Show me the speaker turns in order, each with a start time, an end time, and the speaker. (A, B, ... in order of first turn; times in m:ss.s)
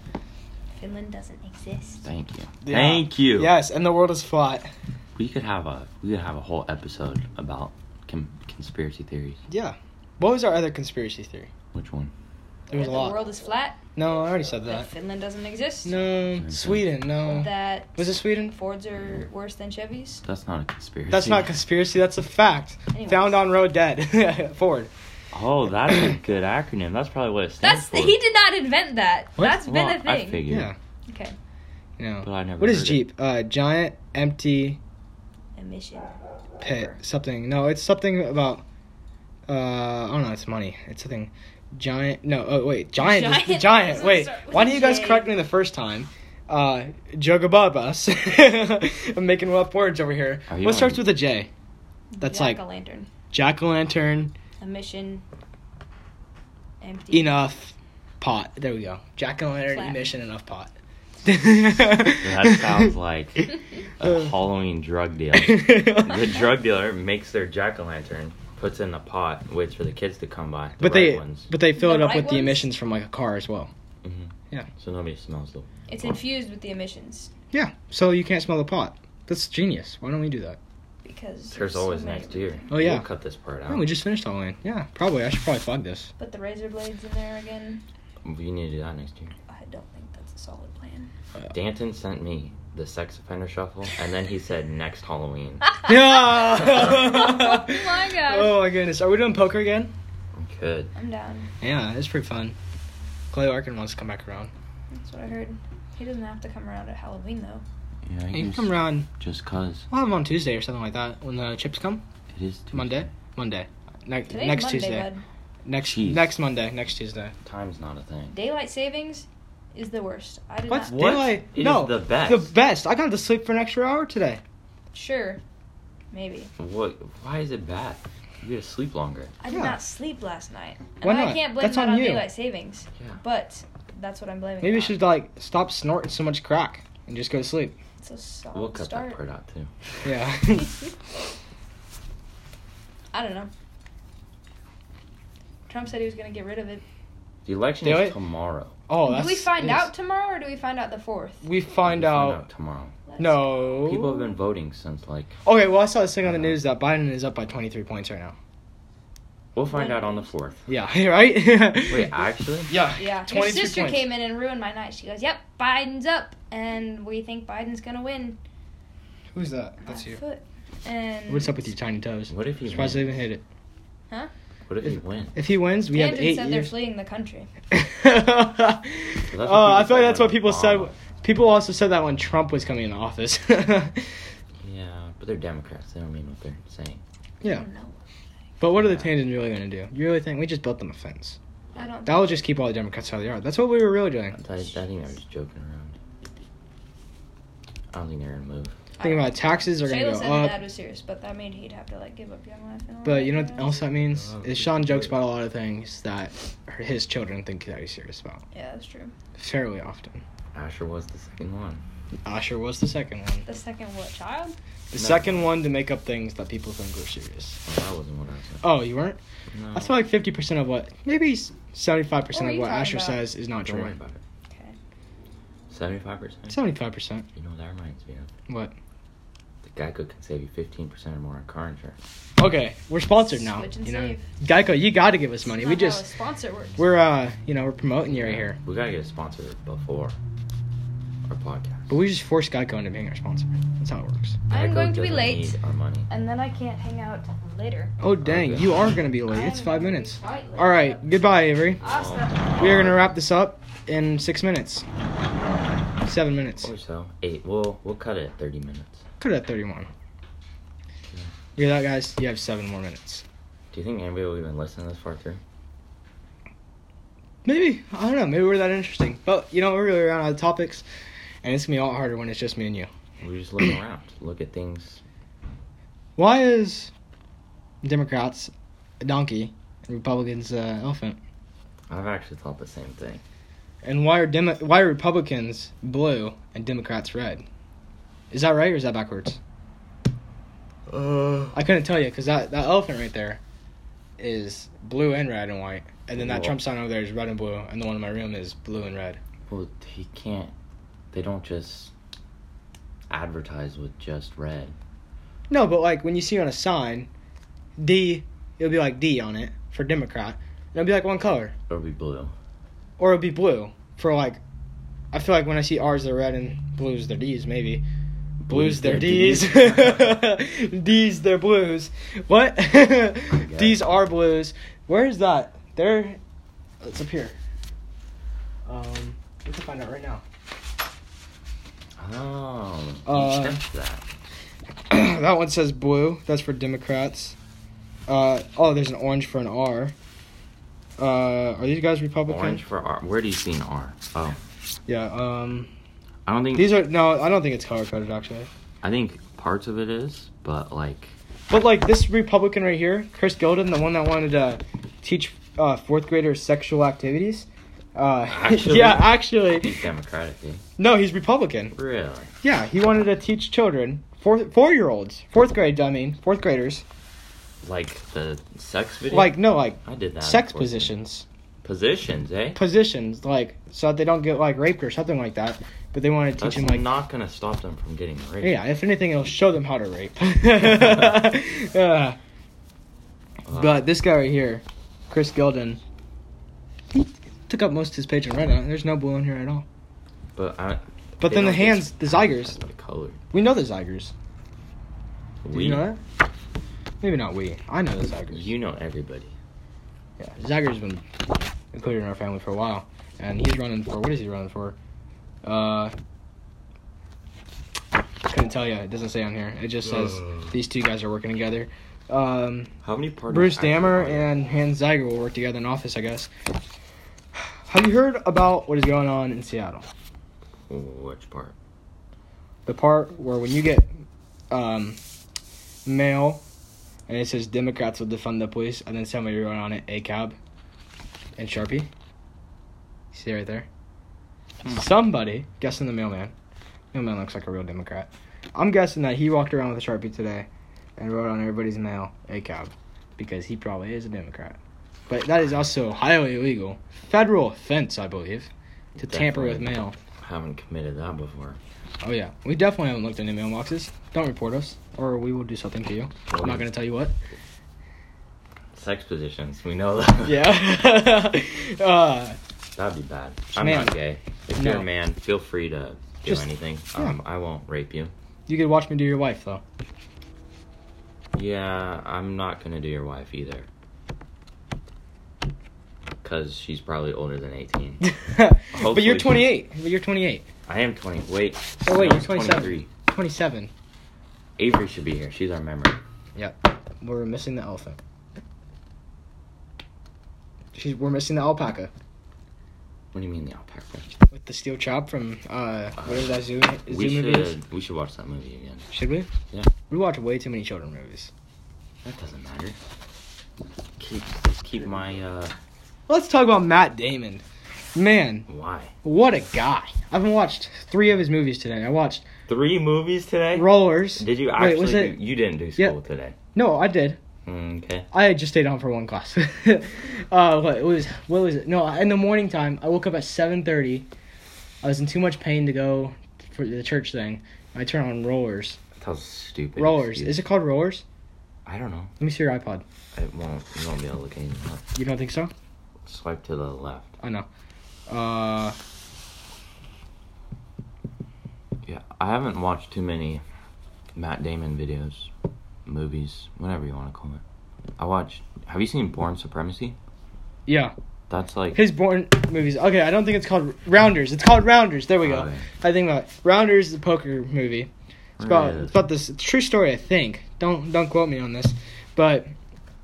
0:00.8-0:02.1 A
0:02.0-0:03.5 B
0:02.6-0:04.7 C
0:05.2-0:09.4 B
0:09.5-0:11.5 C
0:11.7-0:12.1 B
0:12.7-0:13.2 C
0:12.7-0:13.8 A
0:14.0-0:14.9 C
0:14.7-0:16.0 A
0:15.8-0:18.6 C
0:16.4-0:16.9 B
0:17.2-0:20.2 A
0:20.2-0:21.6 B
0:21.1-0:24.9 C
0:22.9-0:23.4 A
0:25.3-0:28.2 B
0:25.9-0:26.2 C
0:27.6-0:30.4 A
0:29.6-0:30.7 B
0:30.5-0:30.8 C
0:31.1-0:31.4 A
0:32.0-0:34.8 C
0:32.2-0:33.1 B
0:35.6-0:36.2 A
0:36.6-0:38.6 C
0:39.5-0:51.5 C
0:43.0-0:45.3 A
0:50.5-0:51.1 B
0:52.1-0:53.1 A
0:52.2-0:52.6 C
0:53.3-0:54.4 C
0:54.6-0:55.2 A
0:56.8-0:57.4 A
0:57.1-1:00.7 C
0:59.7-1:00.0 A
1:01.2-1:02.9 C
1:02.0-1:11.5 B
1:05.4-1:06.4 C
1:10.8-1:13.7 C
1:11.7-1:12.7 A
1:14.0-1:16.2 B
1:15.9-1:17.3 A
1:17.5-1:20.6 C
1:21.0-1:22.7 A
1:21.5-1:23.9 B
1:22.7-1:23.1 C
1:23.7-1:26.1 C
1:26.2-1:27.8 A
1:28.2-1:29.3 B
1:29.5-1:31.1 A
1:31.5-1:35.8 B
1:35.7-1:38.6 A
1:35.9-1:39.9 C
1:36.6-1:36.9 B
1:40.4-1:40.9 B
1:41.0-1:41.5 A
1:41.6-1:42.6 C
1:43.3-1:44.5 C
1:44.9-1:47.6 A
1:48.1-1:49.9 B
1:48.3-1:49.1 C
1:49.9-1:52.0 C
1:52.3-1:53.1 B
1:52.7-1:55.1 C
1:54.3-1:55.2 A
1:55.6-1:57.3 C
1:55.8-1:56.3 B
1:57.4-1:58.4 B
1:58.3-2:01.2 A
2:00.7-2:04.4 C
2:00.9-2:02.5 B
2:04.9-2:05.4 A
2:06.1-2:06.5 A
2:06.6-2:09.3 B
2:09.4-2:15.0 A
2:09.5-2:09.8 C
2:11.0-2:12.3 C
2:14.6-2:17.8 C
2:18.0-2:19.2 A
2:18.5-2:19.7 B
2:20.0-2:20.8 C
2:23.1-2:23.5 A
2:25.7-2:26.8 A
2:27.4-2:28.8 B
2:27.8-2:28.2 C
2:28.9-2:29.9 C
2:29.0-2:31.4 A
2:31.4-2:32.4 C
2:31.8-2:33.0 B
2:33.1-2:34.2 A
2:33.2-2:34.1 C
2:33.8-2:35.4 B
2:35.4-2:38.4 C
2:36.2-2:36.6 B
2:39.6-2:40.6 B
2:39.7-2:40.3 A
2:40.7-2:42.2 C
2:41.9-2:42.7 B
2:42.7-2:44.1 C
2:43.0-2:48.4 A
2:49.3-2:50.2 C
2:49.9-2:51.7 A
2:51.3-2:53.4 C
2:52.3-2:53.2 B
2:54.7-2:55.4 B
2:54.8-2:56.7 C
2:55.9-2:57.5 A
2:57.7-3:04.1 C
2:59.3-3:01.0 B
3:04.6-3:07.0 B
3:07.4-3:08.0 A
3:08.6-3:11.4 C
3:08.7-3:09.2 B
3:11.8-3:12.4 A
3:12.1-3:14.4 C
3:14.3-3:16.0 B
3:17.9-3:18.8 B
3:19.0-3:23.8 A
3:19.0-3:20.6 C
3:23.0-3:28.4 C
3:24.2-3:25.2 B
3:28.5-3:29.1 A
3:29.4-3:30.2 C
3:30.5-3:31.8 B
3:32.2-3:33.5 C
3:33.5-3:34.6 A
3:34.9-3:37.6 C
3:35.0-3:35.6 B
3:37.6-3:38.7 B
3:38.6-3:39.2 C
3:39.5-3:40.0 B
3:39.7-3:44.0 C
3:42.3-3:43.2 A
3:43.6-3:44.2 B
3:44.5-3:44.8 A
3:45.7-3:46.6 B
3:46.5-3:47.3 C
3:47.4-3:48.3 B
3:48.5-3:48.7 C
3:49.6-3:52.0 B
3:52.4-3:56.0 C
3:53.2-3:54.3 A
3:55.4-3:56.9 A
3:56.8-3:58.6 C
3:58.0-4:00.2 B
4:01.3-4:01.9 B
4:01.9-4:04.4 C
4:04.5-4:05.5 A
4:04.5-4:06.1 B
4:06.1-4:07.9 A
4:08.0-4:11.8 C
4:08.2-4:08.9 B
4:09.3-4:11.0 A
4:11.8-4:13.1 B
4:11.8-4:13.0 A
4:12.6-4:14.8 C
4:16.0-4:16.7 C
4:16.6-4:19.0 B
4:19.2-4:19.9 C
4:21.6-4:23.2 C
4:23.7-4:25.4 B
4:27.4-4:30.8 C
4:31.4-4:32.9 C
4:33.2-4:35.0 B
4:36.2-4:36.9 C
4:37.8-4:41.2 C
4:41.9-4:43.2 B
4:43.8-4:47.4 C
4:48.3-4:49.4 C
4:50.9-4:51.5 B
4:51.5-4:53.4 C
4:54.2-4:59.2 C
4:56.2-4:56.6 B
4:59.5-5:00.5 B
5:01.1-5:01.9 B
5:03.1-5:04.8 B
5:05.5-5:07.1 C
5:07.8-5:11.5 C
5:11.7-5:12.3 B
5:13.0-5:14.4 C
5:15.1-5:17.8 C
5:18.4-5:26.2 C
5:18.5-5:20.2 B
5:23.3-5:23.8 B
5:26.8-5:27.4 C
5:28.7-5:30.2 C
5:32.0-5:34.1 B
5:33.1-5:33.6 C
5:34.9-5:37.4 C
5:38.1-5:40.0 C
5:41.0-5:42.6 C
5:42.3-5:44.4 B
5:44.9-5:45.7 C
5:46.3-5:46.8 B
5:46.6-5:48.5 C
5:48.8-5:51.1 B
5:51.5-5:59.8 C
5:58.3-6:00.6 B
6:00.8-6:01.8 C
6:01.7-6:02.3 B
6:02.4-6:06.8 C
6:07.6-6:11.0 B
6:09.1-6:11.3 C
6:11.6-6:12.6 B
6:12.6-6:16.9 C
6:16.4-6:18.6 B
6:18.4-6:22.2 C
6:23.5-6:23.9 B
6:23.5-6:25.8 C
6:26.9-6:29.7 C
6:30.4-6:33.2 B
6:31.2-6:32.6 C
6:33.3-6:34.1 C
6:35.4-6:35.9 B
6:35.5-6:36.0 C
6:37.0-6:38.5 C
6:38.3-6:39.3 B
6:40.2-6:41.0 C
6:41.7-6:44.8 C
6:45.4-6:45.9 C
6:48.3-6:52.7 C
6:50.0-6:50.5 B
6:52.8-6:54.3 B
6:53.3-6:56.3 C
6:57.4-6:59.9 C
7:00.7-7:01.6 B
7:02.7-7:03.9 C
7:04.5-7:05.0 C
7:05.9-7:06.4 C
7:07.1-7:10.4 C
7:11.4-7:11.9 C
7:13.1-7:13.7 C
7:14.7-7:16.3 C
7:16.9-7:30.0 C
7:29.0-7:31.6 B
7:32.0-7:37.2 C
7:36.3-7:36.7 B
7:38.7-7:40.6 B
7:40.2-7:42.4 C
7:42.8-7:48.1 B
7:43.6-7:44.0 C
7:44.6-7:44.9 C
7:46.2-7:47.2 C
7:48.5-7:49.6 C
7:51.3-7:53.7 B
7:56.2-7:58.0 B
7:58.0-8:00.5 C
7:58.7-7:59.6 B
8:00.7-8:02.9 B
8:01.8-8:03.7 C
8:04.6-8:06.0 B
8:06.4-8:08.0 C
8:10.8-8:11.9 C
8:13.1-8:14.1 B
8:14.3-8:17.5 C
8:16.0-8:18.9 B
8:18.9-8:19.3 C
8:19.9-8:21.3 C
8:22.0-8:22.8 B
8:24.0-8:25.6 B
8:26.1-8:27.4 C
8:28.0-8:28.5 C
8:28.5-8:28.9 B
8:29.0-8:32.3 C
8:32.5-8:36.4 B
8:33.6-8:35.2 C
8:36.5-8:37.2 C
8:37.5-8:38.1 B
8:38.1-8:44.1 C
8:44.8-8:48.8 C
8:49.0-8:50.4 B
8:49.8-8:51.0 C
8:51.7-8:52.1 B
8:52.2-8:52.8 C
8:53.1-8:54.8 B
8:55.0-8:55.5 C
8:56.0-8:57.2 B
8:57.2-8:57.5 C
8:58.1-8:58.8 C
9:01.8-9:03.4 B
9:04.2-9:05.3 B
9:05.9-9:07.4 B
9:08.0-9:10.0 B
9:10.7-9:10.9 C
9:11.3-9:11.8 B
9:11.7-9:17.9 C
9:15.2-9:15.7 B
9:18.4-9:19.0 B
9:18.4-9:22.5 C